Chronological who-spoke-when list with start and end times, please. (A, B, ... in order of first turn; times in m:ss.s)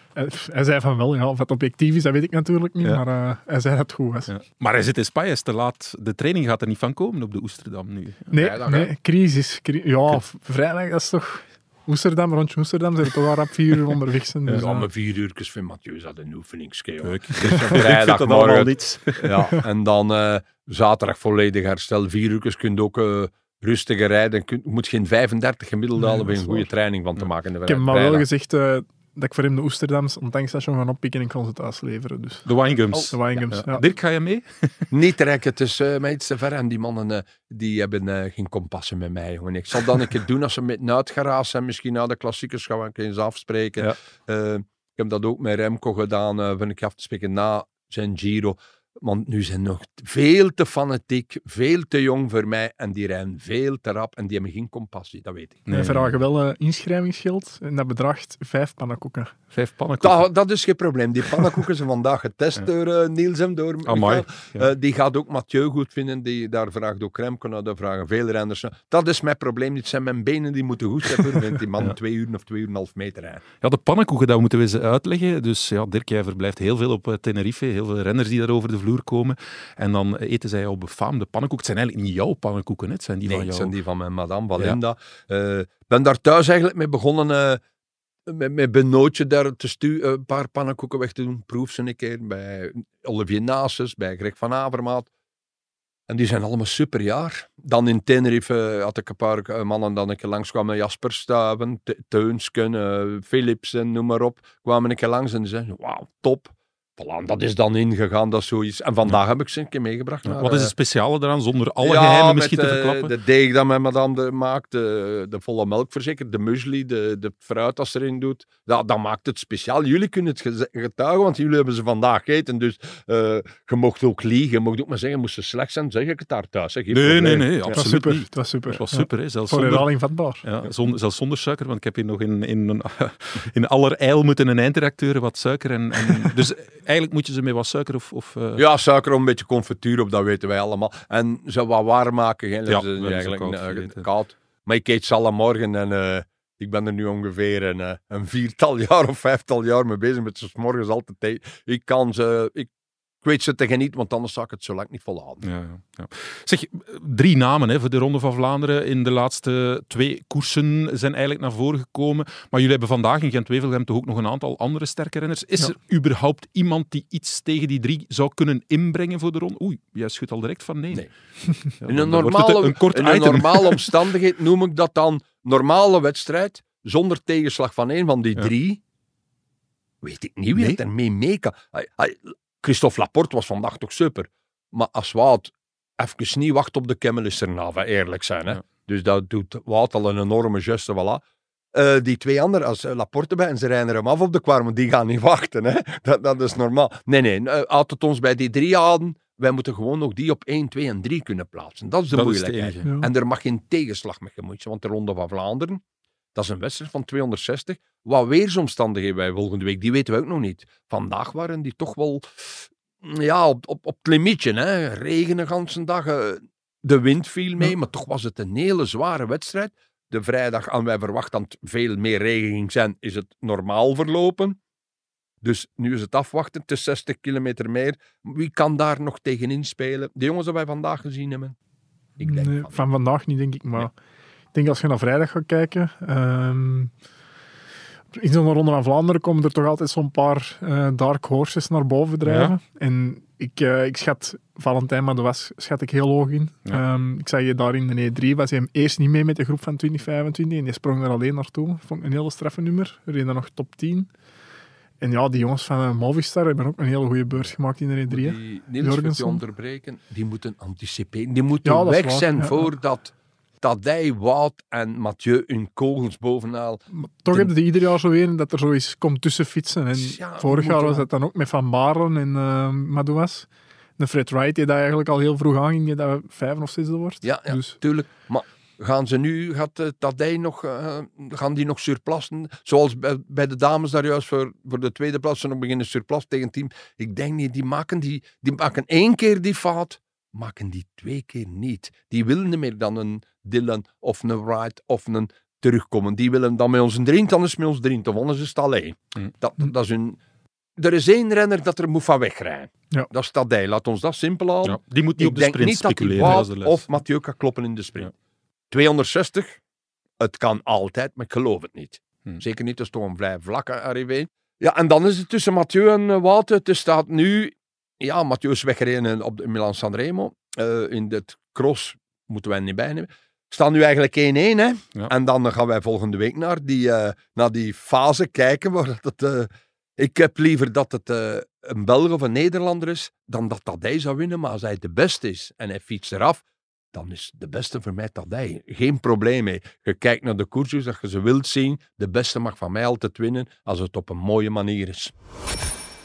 0:00.2-0:04.3 A
0:04.3-0:08.3 B
0:08.3-0:14.9 A
0:08.3-0:08.9 C
0:14.6-0:28.2 C
0:17.0-0:19.4 B
0:27.6-0:32.5 A
0:32.4-0:34.9 B
0:33.1-0:33.8 A
0:34.9-0:55.6 C
0:55.6-0:56.1 B
0:55.7-0:59.3 A
0:59.5-1:00.3 B
1:00.0-1:13.4 C
1:03.9-1:04.7 B
1:11.1-1:11.9 B
1:13.6-1:23.7 B
1:23.2-1:27.6 C
1:28.3-1:35.1 C
1:36.1-1:50.7 C
1:50.2-1:53.1 B
1:51.8-2:07.8 C
2:06.9-2:09.9 B
2:07.7-2:10.4 A
2:10.4-2:18.6 B
2:18.6-2:32.7 C
2:22.7-2:24.0 B
2:33.2-2:35.4 C
2:35.4-2:51.1 B
2:51.8-2:53.9 B
2:51.9-2:58.8 C
3:00.0-3:11.2 C
3:00.5-3:00.8 B
3:11.7-3:25.8 C
3:22.1-3:22.9 B
3:22.8-3:23.1 A
3:26.4-3:44.6 C
3:45.4-3:51.6 C
3:52.2-3:52.9 C
3:52.2-3:53.9 A
3:54.5-3:56.9 A
3:58.1-4:14.1 A
4:02.2-4:02.5 B
4:15.0-4:19.4 A
4:18.1-4:27.5 C
4:21.6-4:22.7 A
4:26.9-4:37.7 A
4:29.9-4:31.1 C
4:37.2-5:00.2 C
5:00.8-5:08.1 C
5:04.6-5:06.8 B
5:08.7-5:09.6 C
5:10.2-5:36.4 C
5:36.9-5:45.1 C